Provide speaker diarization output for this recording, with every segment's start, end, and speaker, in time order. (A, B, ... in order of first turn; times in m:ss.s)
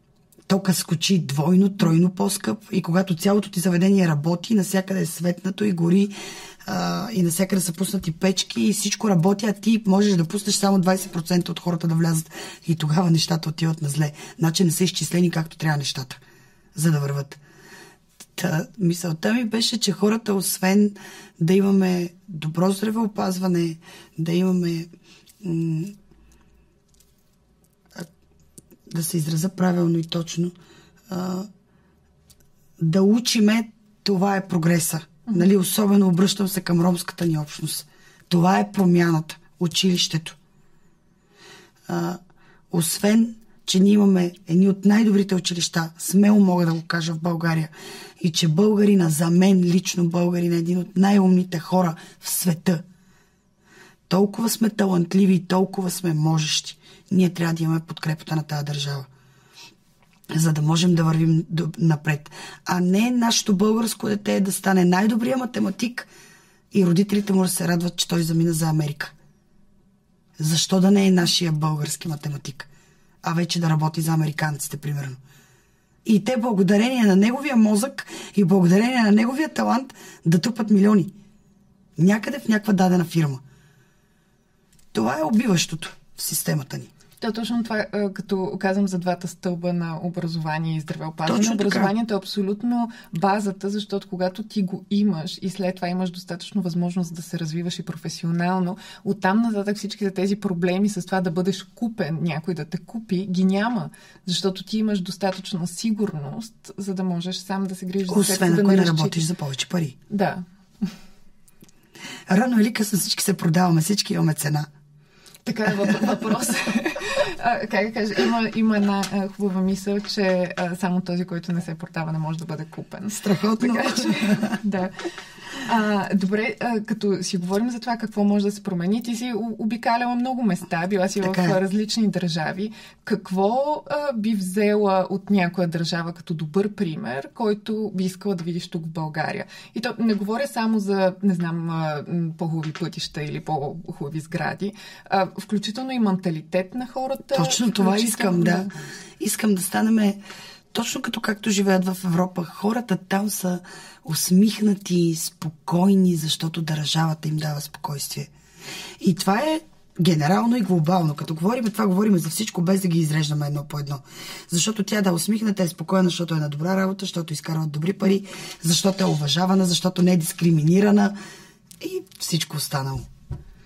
0:00.5-0:16.2 A
0:16.7-0:17.4 A
0:18.4-0:24.9 A
0:25.4-0:25.9 A
0:28.9-0:30.5 A
0:31.1-0:31.5 A
0:32.8-0:40.4 A
0:41.9-0:42.2 A
0:42.7-0:52.8 A
0:54.1-0:59.1 A
1:00.3-1:06.1 A
1:06.7-1:09.1 A
1:10.4-1:12.7 A
1:13.2-1:15.2 A
1:16.0-1:21.1 A
1:22.0-1:23.4 A
1:24.9-1:26.9 A
1:27.2-1:49.3 B
1:31.3-1:31.9 A
1:48.1-1:50.0 A
1:50.1-1:50.9 B
1:52.3-1:54.7 A
1:55.4-2:04.9 B
2:03.1-2:04.6 A
2:05.6-2:28.7 B
2:11.2-2:11.6 A
2:27.3-2:30.2 A
2:30.7-2:38.3 A
2:39.0-2:51.2 A
2:51.8-2:53.1 A